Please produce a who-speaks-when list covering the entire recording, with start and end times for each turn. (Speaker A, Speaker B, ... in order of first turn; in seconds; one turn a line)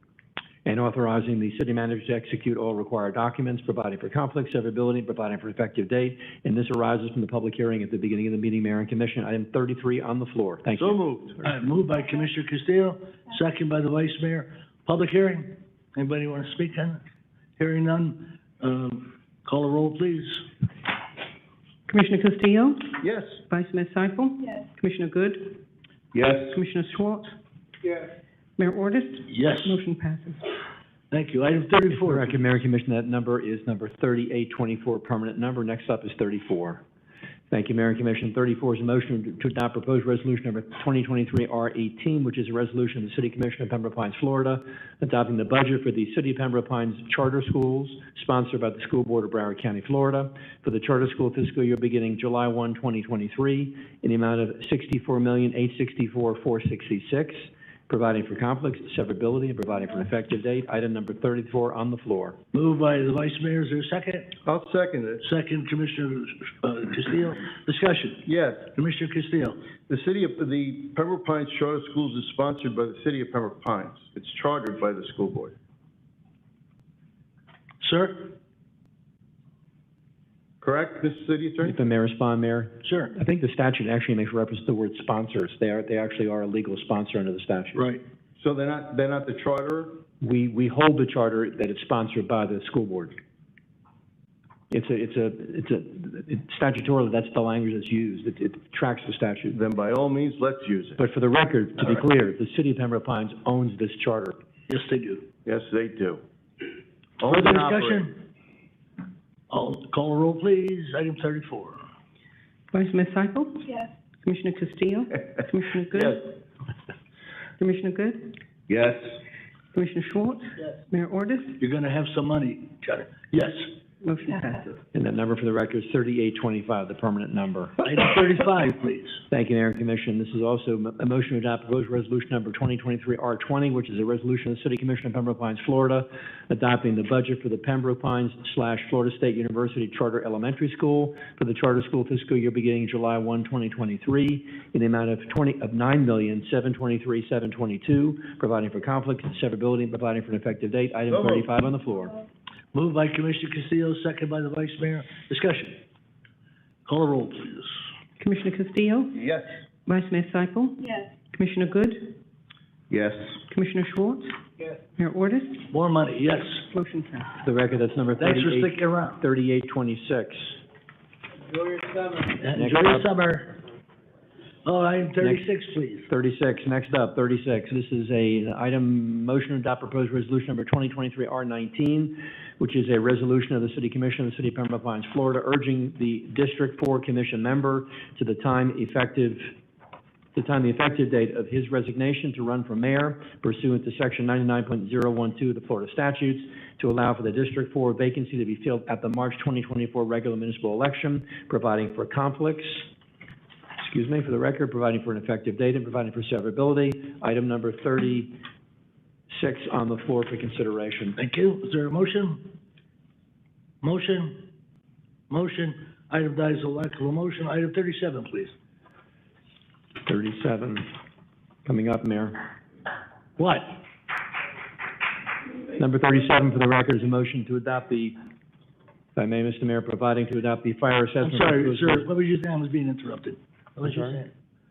Speaker A: 0.7-11.0
Speaker B: 10.8-11.4
Speaker C: 11.4-17.0
Speaker C: 17.6-20.5
Speaker D: 21.9-25.6
Speaker B: 23.0-23.4
Speaker B: 26.1-26.6
Speaker D: 26.5-27.4
Speaker D: 28.6-30.4
Speaker C: 29.3-29.8
Speaker C: 31.1-32.4
Speaker A: 31.9-36.8
Speaker A: 37.5-62.4
Speaker C: 62.5-64.3
Speaker B: 64.4-65.3
Speaker C: 65.2-69.6
Speaker B: 68.2-68.7
Speaker B: 69.9-75.5
Speaker C: 77.8-78.3
Speaker B: 80.6-81.8
Speaker A: 81.6-87.8
Speaker C: 82.8-83.1
Speaker C: 87.8-88.0
Speaker B: 88.4-90.0
Speaker A: 90.2-93.2
Speaker A: 94.7-99.6
Speaker B: 99.5-101.0
Speaker A: 101.0-104.4
Speaker C: 104.7-105.3
Speaker B: 105.5-106.2
Speaker B: 107.2-108.1
Speaker C: 107.2-108.2
Speaker C: 109.5-111.8
Speaker D: 112.7-116.3
Speaker D: 117.6-118.4
Speaker B: 118.7-119.2
Speaker D: 119.7-121.6
Speaker C: 121.6-123.7
Speaker D: 124.0-124.7
Speaker A: 124.9-127.8
Speaker C: 127.8-129.2
Speaker A: 129.3-152.2
Speaker B: 151.1-151.5
Speaker C: 152.7-155.8
Speaker C: 156.9-157.7
Speaker D: 158.2-159.3
Speaker B: 159.2-159.5
Speaker D: 159.9-162.2
Speaker B: 162.9-163.4
Speaker D: 163.5-164.4
Speaker D: 165.0-165.7
Speaker C: 165.6-166.7
Speaker D: 166.7-167.4
Speaker A: 167.4-170.6
Speaker C: 168.2-169.2
Speaker C: 172.2-173.6
Speaker A: 172.5-173.1
Speaker C: 174.7-176.1
Speaker A: 176.1-189.5
Speaker A: 190.3-202.9
Speaker A: 203.8-208.4
Speaker A: 209.3-211.2
Speaker C: 211.2-212.5
Speaker C: 213.8-214.5
Speaker C: 215.3-218.5
Speaker A: 220.1-220.9
Speaker A: 221.7-222.4
Speaker C: 223.4-223.8
Speaker A: 225.8-228.2
Speaker A: 229.2-232.1
Speaker C: 231.2-234.3
Speaker A: 233.8-234.2